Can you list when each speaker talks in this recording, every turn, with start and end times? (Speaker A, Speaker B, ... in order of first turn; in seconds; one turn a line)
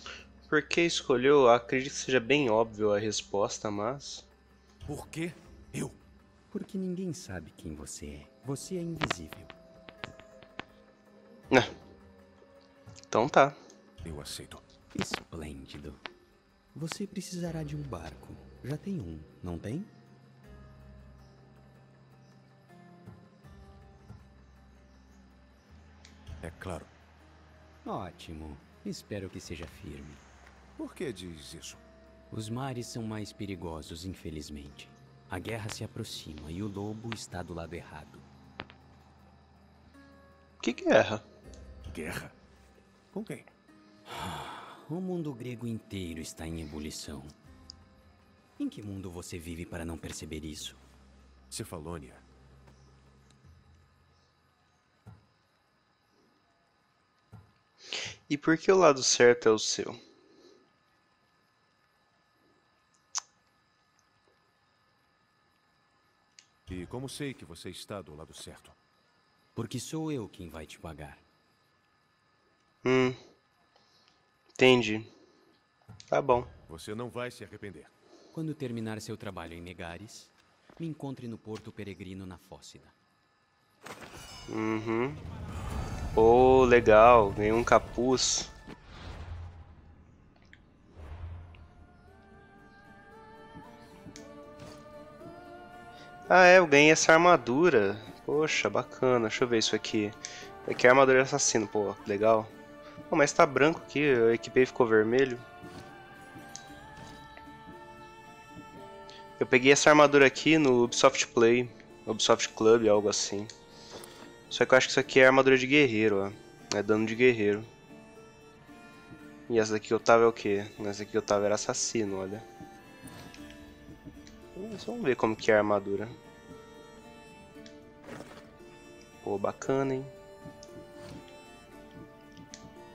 Speaker A: 0.5-4.2
Speaker B: 4.8-6.0
Speaker C: 6.5-9.5
Speaker A: 13.1-13.6
Speaker B: 14.0-14.6
Speaker C: 14.9-16.0
Speaker C: 16.7-19.9
Speaker B: 26.4-26.9
Speaker C: 27.8-30.2
Speaker B: 30.8-31.8
Speaker C: 32.3-38.2
Speaker A: 40.6-41.2
Speaker B: 41.9-42.3
Speaker B: 43.1-43.5
Speaker C: 44.1-47.3
Speaker C: 48.6-50.8
Speaker B: 51.5-52.2
Speaker A: 58.3-60.0
Speaker B: 66.7-68.8
Speaker C: 69.5-71.2
Speaker A: 72.8-73.2
Speaker A: 74.6-75.1
Speaker A: 76.1-76.5
Speaker B: 76.7-77.9
Speaker C: 78.3-82.9
Speaker A: 84.5-85.2
Speaker A: 86.1-88.5
Speaker A: 96.3-102.5
Speaker A: 103.1-105.4
Speaker A: 109.4-113.5
Speaker A: 114.5-117.7
Speaker A: 119.5-122.4
Speaker A: 124.5-126.1
Speaker A: 129.2-130.1